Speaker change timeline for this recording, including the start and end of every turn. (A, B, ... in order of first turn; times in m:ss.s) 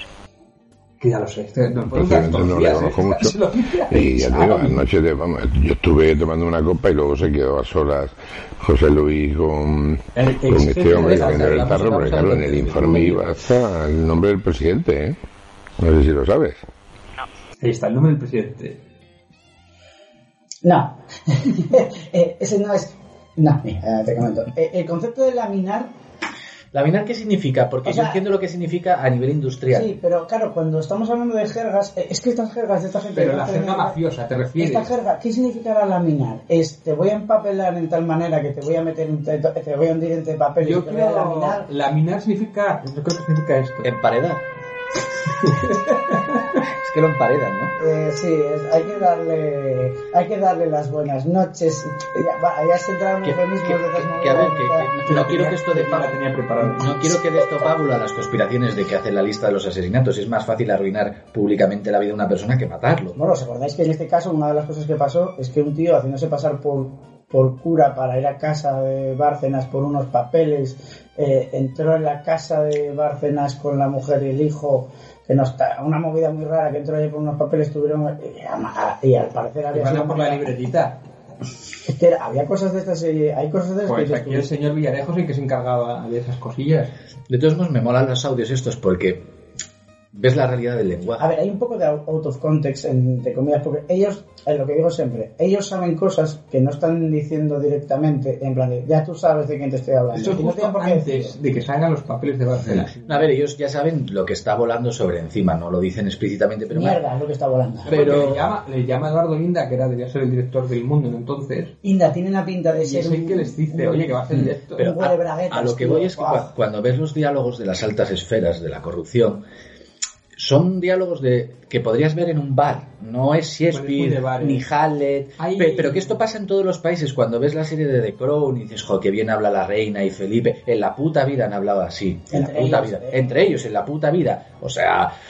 0:01.0-0:04.8 A
0:01.9-0:15.2 B
0:10.2-0:11.6 A
0:10.8-0:13.2 C
0:15.8-0:16.6 B
0:17.6-0:18.8 A
0:20.6-0:25.9 D
0:26.7-0:29.9 C
0:27.8-0:28.2 D
0:29.7-0:34.0 D
0:33.1-0:34.9 A
0:34.6-0:41.7 D
0:40.6-0:43.9 A
0:43.8-0:44.4 C
0:45.5-0:45.9 A
0:46.6-0:47.8 C
0:47.8-0:55.2 D
0:53.2-1:03.2 C
0:55.0-0:56.9 A
1:03.2-1:20.5 D
1:19.7-1:21.1 A
1:21.9-1:24.5 D
1:23.8-1:26.9 A
1:27.3-1:29.3 C
1:30.1-1:31.3 C
1:31.2-1:41.4 D
1:40.1-1:43.3 A
1:42.6-1:47.0 C
1:46.7-1:48.3 D
1:47.8-1:48.5 C
1:47.9-1:51.8 A
1:51.8-1:54.2 D
1:52.8-1:54.9 A
1:54.3-1:59.4 C
1:54.8-1:56.5 D
2:00.4-2:15.1 C
2:03.7-2:04.7 A
2:05.4-2:06.2 A
2:12.3-2:13.3 D